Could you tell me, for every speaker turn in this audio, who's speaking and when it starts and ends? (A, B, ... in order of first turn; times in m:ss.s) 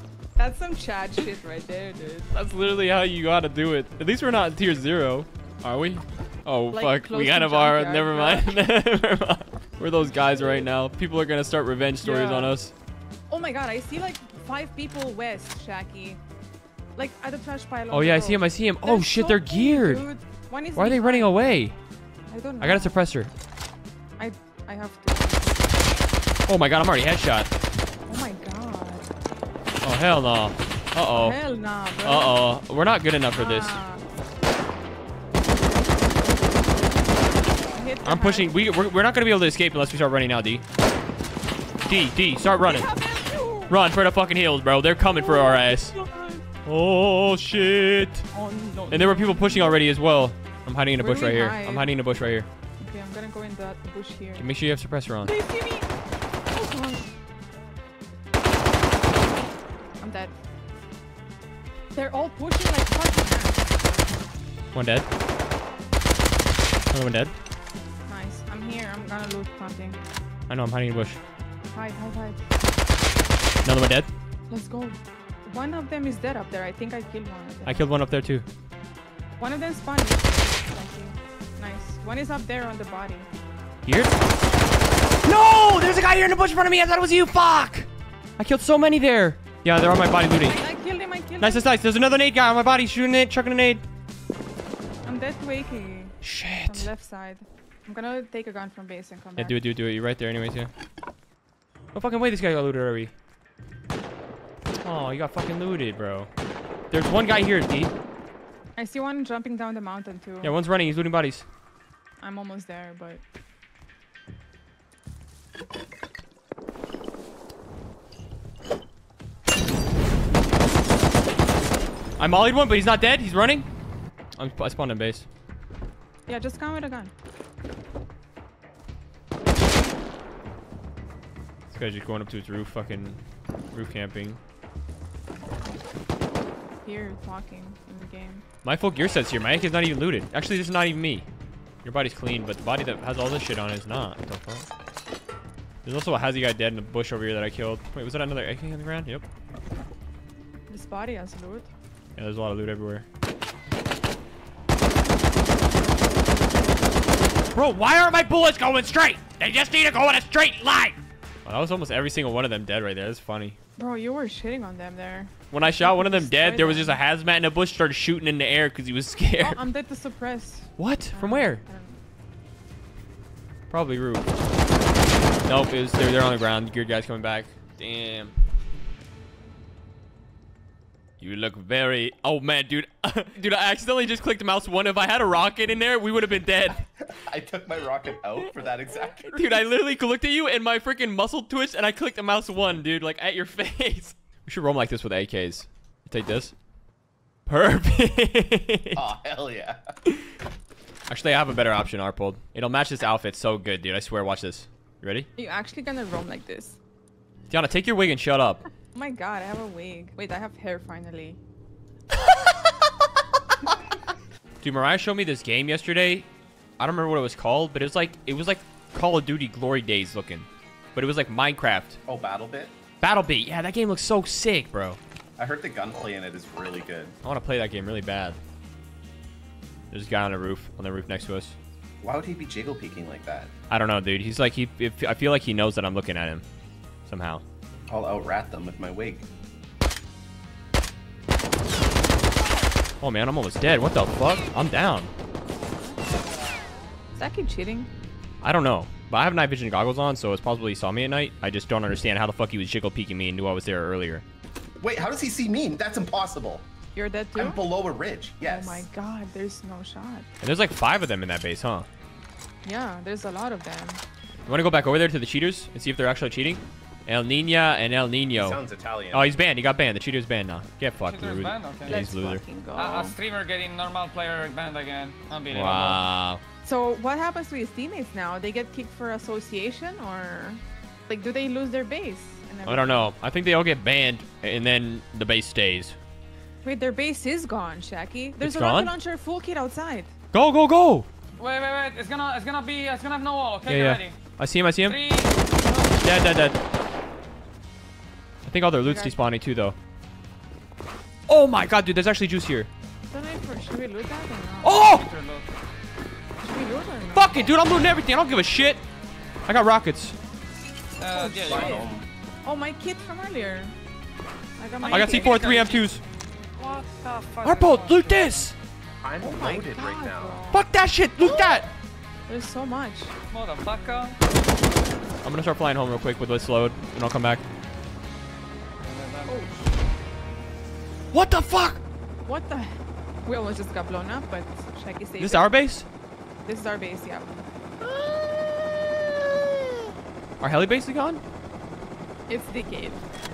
0:00.4-0:02.3 A
0:02.3-0:12.7 B
0:06.7-0:08.7 A
0:10.0-0:10.7 A
0:12.0-0:12.6 A
0:13.3-0:16.2 A
0:17.0-0:21.3 A
0:17.9-0:20.0 B
0:20.7-0:21.7 B
0:22.3-0:22.9 A
0:22.6-0:23.3 B
0:24.2-0:25.6 A
0:26.5-0:27.5 B
0:28.1-0:29.0 A
0:29.8-0:31.4 B
0:31.1-0:32.5 A
0:32.0-0:33.8 B
0:33.3-0:34.0 A
0:37.7-0:38.5 A
0:38.0-0:40.6 B
0:41.8-0:42.9 B
0:42.6-0:43.8 A
0:43.7-0:46.0 B
0:45.2-0:46.4 A
0:46.6-0:48.3 B
0:48.3-0:49.9 A
0:48.9-0:52.5 B
0:51.0-0:52.0 A
0:52.8-0:54.5 A
0:54.4-0:55.3 B
0:55.2-0:55.9 A
0:56.5-0:57.1 A
1:00.0-1:00.3 A
1:01.9-1:03.6 A
1:04.7-1:05.0 B
1:06.9-1:07.3 B
1:08.1-1:10.0 A
1:10.5-1:11.2 B
1:11.7-1:12.4 A
1:13.6-1:14.1 B
1:14.5-1:17.8 A
1:17.6-1:18.4 B
1:19.4-1:23.3 A
1:23.8-1:24.2 B
1:25.2-1:27.9 B
1:28.4-1:30.6 B
1:30.4-1:31.6 A
1:31.4-1:33.8 B
1:35.0-1:39.6 A
1:36.2-1:36.9 B
1:39.4-1:40.7 B
1:41.9-1:43.1 B
1:44.8-1:46.3 B
1:46.9-1:47.9 B
1:48.8-1:50.5 A
1:50.4-1:51.4 B
1:52.2-1:53.2 A
2:02.2-2:03.7 B
2:04.4-2:05.2 B
2:06.3-2:07.1 A
2:11.7-2:13.2 B
2:13.7-2:14.4 B
2:16.8-2:18.4 A
2:18.6-2:21.2 B
2:21.8-2:24.6 B
2:25.8-2:29.2 B
2:30.7-2:31.7 A
2:32.2-2:33.0 B
2:37.5-2:43.6 B
2:43.8-2:47.0 A
2:45.5-2:49.6 B
2:49.4-2:52.0 A
2:50.8-2:51.6 B
2:53.7-2:54.3 B
2:55.4-2:58.4 B
3:01.2-3:06.8 B
3:07.0-3:09.6 C
3:09.2-3:16.5 B
3:17.5-3:19.1 B
3:18.9-3:19.9 C
3:21.1-3:25.3 B
3:25.4-3:26.8 A
3:27.5-3:28.6 B
3:28.9-3:31.4 A
3:34.6-3:36.3 B
3:36.8-3:42.0 B
3:42.0-3:42.7 C
3:43.0-3:45.0 B
3:45.4-3:47.2 C
3:47.2-3:48.4 B
3:49.9-3:51.6 B
3:52.0-3:53.5 C
3:53.7-3:56.4 B
3:57.0-3:57.4 B
3:57.9-3:59.3 C
4:03.0-4:05.1 B
4:07.2-4:07.9 A
4:08.4-4:14.2 B
4:14.8-4:16.6 C
4:16.9-4:17.6 A
4:17.3-4:18.8 C
4:18.4-4:20.3 A
4:20.4-4:21.9 B
4:22.6-4:24.0 A
4:24.5-4:28.6 B
4:28.3-4:29.3 C
4:29.1-4:32.4 B
4:31.0-4:32.1 D
4:31.9-4:33.1 A
4:32.7-4:36.0 D
4:35.5-4:36.4 B
4:36.6-4:43.1 A
4:42.6-4:46.0 B
4:46.6-4:50.1 A
4:48.4-4:48.9 B
4:50.3-4:51.1 B
4:51.4-4:54.2 D
4:53.7-4:55.0 B
4:54.8-4:55.9 D
4:56.0-4:56.6 B
4:58.4-4:59.8 B
4:58.8-4:59.2 A
5:01.3-5:02.7 B
5:03.1-5:04.8 A
5:04.6-5:05.0 B
5:04.7-5:05.5 D
5:06.4-5:07.5 A
5:07.1-5:08.8 B
5:09.4-5:10.2 B
5:11.0-5:12.0 D
5:11.1-5:11.9 A
5:11.4-5:12.0 C
5:12.4-5:13.7 A
5:14.6-5:15.6 A
5:14.8-5:15.9 D
5:14.9-5:16.0 B
5:16.6-5:18.5 D
5:17.4-5:18.5 B
5:19.0-5:20.4 C
5:19.2-5:20.6 A
5:20.5-5:21.7 B
5:21.2-5:21.6 C
5:22.3-5:23.1 A
5:23.3-5:24.2 D
5:25.2-5:27.4 B
5:28.8-5:29.6 D
5:29.2-5:29.5 A
5:31.1-5:31.8 B
5:32.2-5:35.5 A
5:35.2-5:35.8 B
5:36.4-5:37.4 A
5:37.8-5:38.9 C
5:40.4-5:41.2 B
5:42.3-5:43.0 A